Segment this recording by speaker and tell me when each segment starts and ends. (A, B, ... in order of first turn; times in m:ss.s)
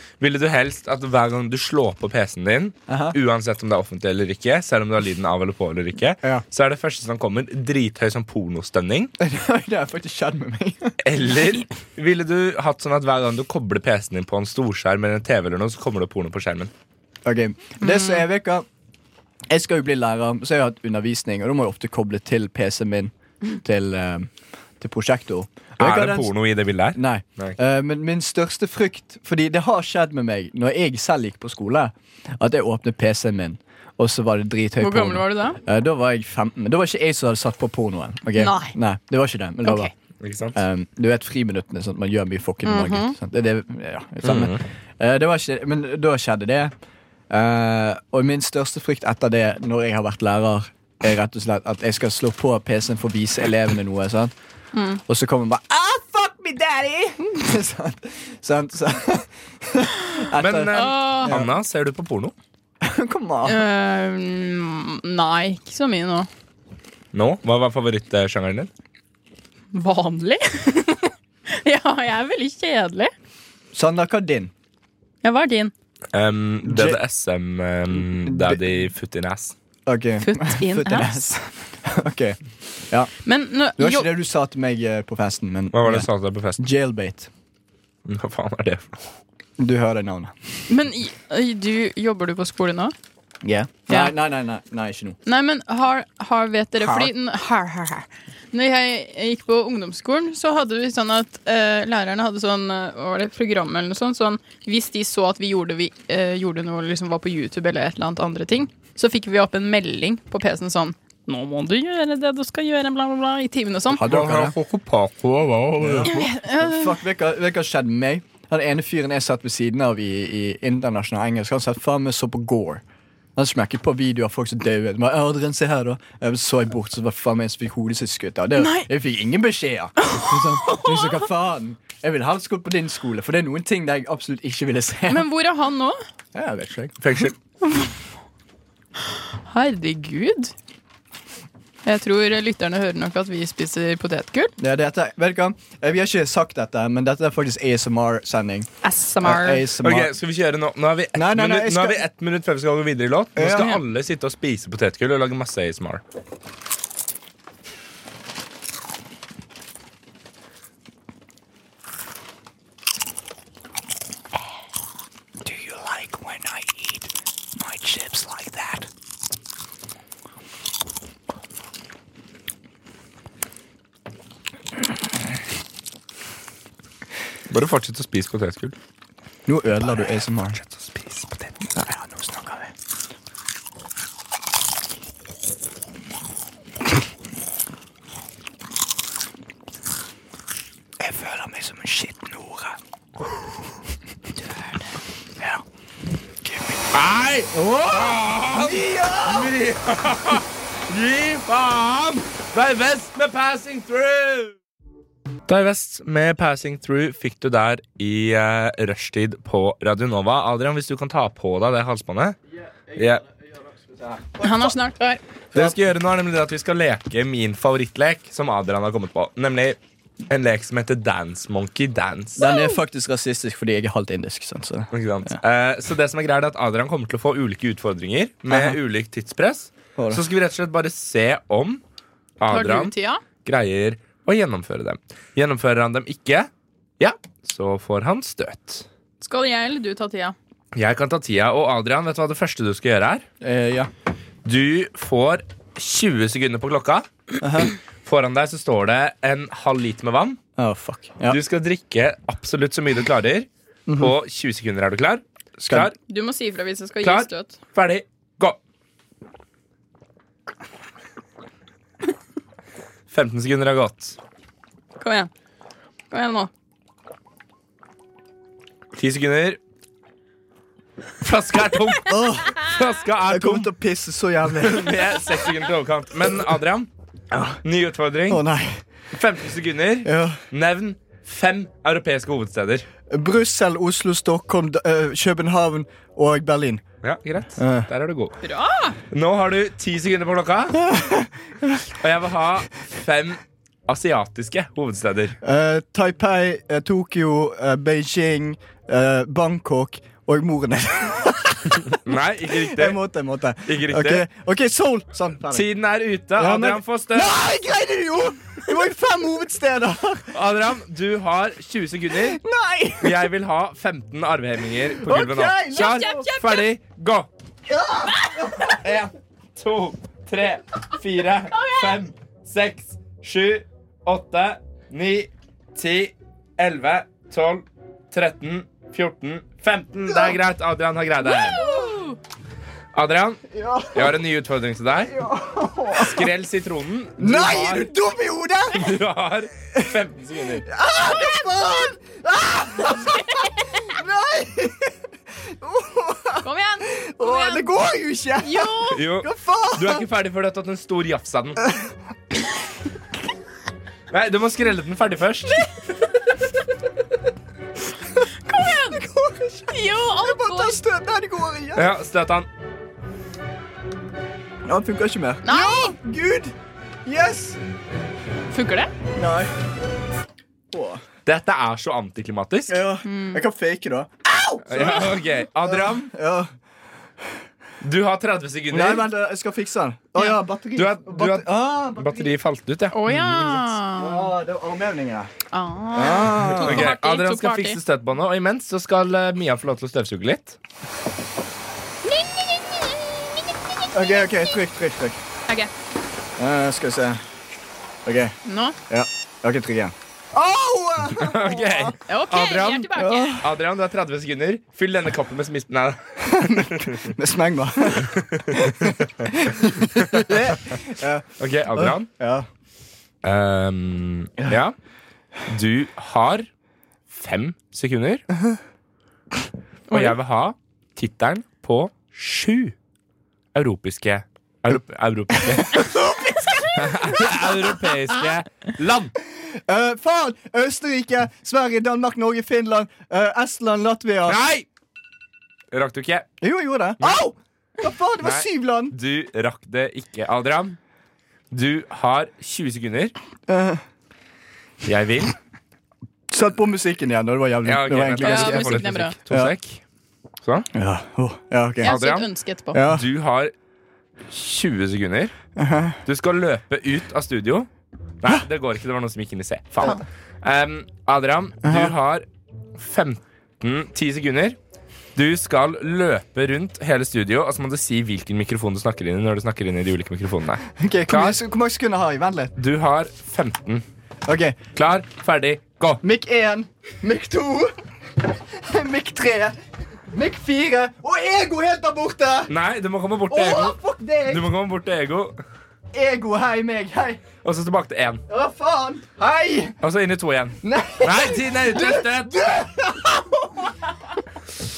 0:00.2-0:09.1 A
0:02.9-0:03.2 B
0:09.2-0:11.0 B
0:11.0-0:16.7 A
0:17.2-0:18.6 B
0:17.8-0:18.2 C
0:19.5-0:26.3 B
0:25.8-0:27.6 A
0:26.9-0:39.9 B
0:34.8-0:35.6 C
0:38.4-0:38.8 C
0:39.6-0:39.9 C
0:40.2-0:40.6 A
0:40.5-0:46.7 B
0:42.6-0:43.1 C
0:44.2-0:44.6 A
0:47.3-0:54.3 B
0:54.7-0:55.0 C
0:55.1-1:01.5 B
1:00.4-1:02.3 A
1:00.7-1:01.4 C
1:02.8-1:03.6 B
1:03.4-1:06.3 C
1:07.1-1:08.7 A
1:09.7-1:13.1 C
1:13.7-1:14.5 B
1:15.2-1:15.7 C
1:16.1-1:19.6 A
1:16.6-1:17.0 B
1:18.0-1:18.7 B
1:19.9-1:21.3 B
1:20.2-1:21.5 C
1:21.8-1:22.4 B
1:23.2-1:24.1 C
1:23.8-1:27.3 B
1:25.7-1:26.6 A
1:28.0-1:29.1 A
1:29.6-1:30.5 B
1:30.7-1:32.9 C
1:33.4-1:35.2 B
1:35.2-1:54.0 C
1:36.8-1:37.1 B
1:53.9-1:54.6 B
1:54.0-1:56.2 A
1:55.8-2:02.8 B
1:56.0-1:57.0 C
2:03.4-2:15.3 B
2:08.6-2:08.9 C
2:10.0-2:11.1 C
2:15.1-2:16.0 C
2:16.3-2:17.0 B
2:17.0-2:17.3 A
2:17.6-2:17.9 C
2:19.5-2:20.5 C
2:21.8-2:24.5 C
2:24.6-2:28.7 B
2:28.8-2:29.7 C
2:29.2-2:30.1 B
2:29.8-2:36.0 A
2:31.1-2:32.0 B
2:33.4-2:33.8 B
2:45.4-2:48.9 B
2:57.5-2:58.8 A
2:59.5-3:00.6 B
3:00.6-3:01.5 A
3:01.7-3:02.7 B
3:11.0-3:12.8 B
3:16.4-3:16.9 B
3:16.9-3:24.5 A
3:17.9-3:19.6 B
3:25.5-3:32.4 A
3:32.9-3:33.2 A
3:33.9-3:34.8 B
3:34.4-3:35.2 C
3:35.5-3:39.8 A
3:40.3-3:42.4 A
3:42.4-3:45.4 B
3:42.4-3:42.8 C
3:44.9-3:51.8 A
3:48.5-3:48.8 B
3:50.0-3:50.2 B
3:52.4-3:58.8 A
3:52.5-3:53.2 C
3:59.2-4:00.3 C
4:00.7-4:03.2 A
4:03.4-4:03.9 B
4:04.4-4:07.1 A
4:07.4-4:07.7 B
4:08.0-4:10.4 A
4:10.6-4:11.4 B
4:11.3-4:16.0 A
4:13.9-4:14.1 B
4:15.6-4:15.9 B
4:16.1-4:17.6 C
4:17.0-4:18.6 A
4:23.1-4:24.2 A
4:25.0-4:25.3 C
4:26.1-4:26.5 C
4:29.0-4:29.6 A
4:31.2-4:33.7 A
4:32.0-4:32.7 B
4:33.2-4:35.1 B
4:34.6-4:36.9 A
4:37.3-4:37.6 B
4:37.6-4:38.4 A
4:38.3-4:38.8 B
4:39.1-4:42.8 A
4:40.0-4:40.4 B
4:43.1-4:46.8 B
4:47.0-4:48.4 A
4:47.6-4:47.9 B
4:48.4-4:49.0 C
4:49.1-4:50.8 A
4:50.8-4:51.8 B
4:52.0-4:55.4 A
4:55.4-5:05.6 B
5:01.9-5:03.0 A
5:03.6-5:04.2 A
5:05.5-5:07.4 A
5:06.4-5:10.4 B
5:10.3-5:12.4 A
5:12.1-5:13.3 B
5:13.0-5:17.3 A
5:15.0-5:16.3 B
5:15.7-5:16.7 C
5:17.7-5:18.8 B
5:18.8-5:31.6 A
5:21.5-5:21.9 C
5:31.2-5:32.2 C
5:31.6-5:31.9 B
5:32.9-5:35.1 A
5:33.5-5:34.2 B
5:35.1-5:36.3 B
5:35.9-5:37.9 A
5:37.2-5:39.0 B
5:38.7-5:40.7 A
5:40.6-5:44.9 B
5:45.5-5:50.0 B
5:46.4-5:47.7 C
5:48.4-5:49.0 C
5:48.9-5:51.6 A
5:54.1-5:55.7 A
5:58.5-5:59.0 C
5:58.6-6:01.9 B
5:59.7-6:00.8 C
6:01.7-6:02.5 A
6:04.6-6:06.5 B
6:05.4-6:05.9 C
6:07.0-6:07.6 B
6:08.5-6:08.9 C
6:09.2-6:09.5 B
6:10.7-6:11.0 B
6:11.2-6:12.8 A
6:12.7-6:16.5 B
6:13.0-6:13.4 C
6:14.7-6:16.1 A
6:17.8-6:19.1 A
6:18.7-6:22.3 B
6:20.8-6:23.7 A
6:22.9-6:24.3 C
6:23.9-6:25.3 B
6:25.5-6:27.8 C
6:25.9-6:26.9 B
6:26.5-6:30.6 A
6:32.1-6:32.4 C
6:33.9-6:35.2 B
6:36.4-6:37.2 B
6:38.0-6:38.3 B
6:38.4-6:38.8 C
6:38.9-6:42.0 B
6:41.2-6:47.1 A
6:42.1-6:43.4 C
6:42.9-6:43.4 B
6:46.2-6:52.5 B
6:47.9-6:49.4 A
6:50.0-6:50.4 A
6:51.4-6:52.1 A
6:53.2-6:54.7 A
6:55.5-6:56.5 A
6:57.1-6:58.2 A
6:59.9-7:02.7 A
7:03.5-7:06.0 A
7:05.4-7:08.2 B
7:06.7-7:09.1 A
7:09.2-7:14.4 B
7:14.3-7:14.6 A
7:15.7-7:16.3 A
7:16.4-7:19.0 B
7:18.2-7:20.8 A
7:21.5-7:23.1 A
7:23.5-7:23.8 B
7:24.8-7:25.3 A
7:26.3-7:29.5 B
7:27.6-7:29.8 A
7:28.2-7:29.1 C
7:30.7-7:32.0 B
7:31.8-7:32.8 C
7:31.8-7:32.3 A
7:32.7-7:33.0 B
7:32.9-7:33.5 A
7:34.3-7:35.3 A
7:35.6-7:36.0 B
7:36.0-7:37.7 A
7:38.2-7:44.6 A
7:41.6-7:41.9 B
7:45.2-7:51.4 A
7:50.7-7:52.5 B
7:52.6-7:53.8 A
7:54.3-7:54.6 B
7:54.8-7:56.0 A
7:56.0-7:59.6 B
8:00.1-8:02.5 B
8:02.5-8:03.8 A
8:03.3-8:04.4 B
8:04.3-8:05.4 A
8:05.9-8:07.2 B
8:07.4-8:08.2 A
8:08.3-8:09.8 B
8:09.8-8:12.4 A
8:10.6-8:13.9 B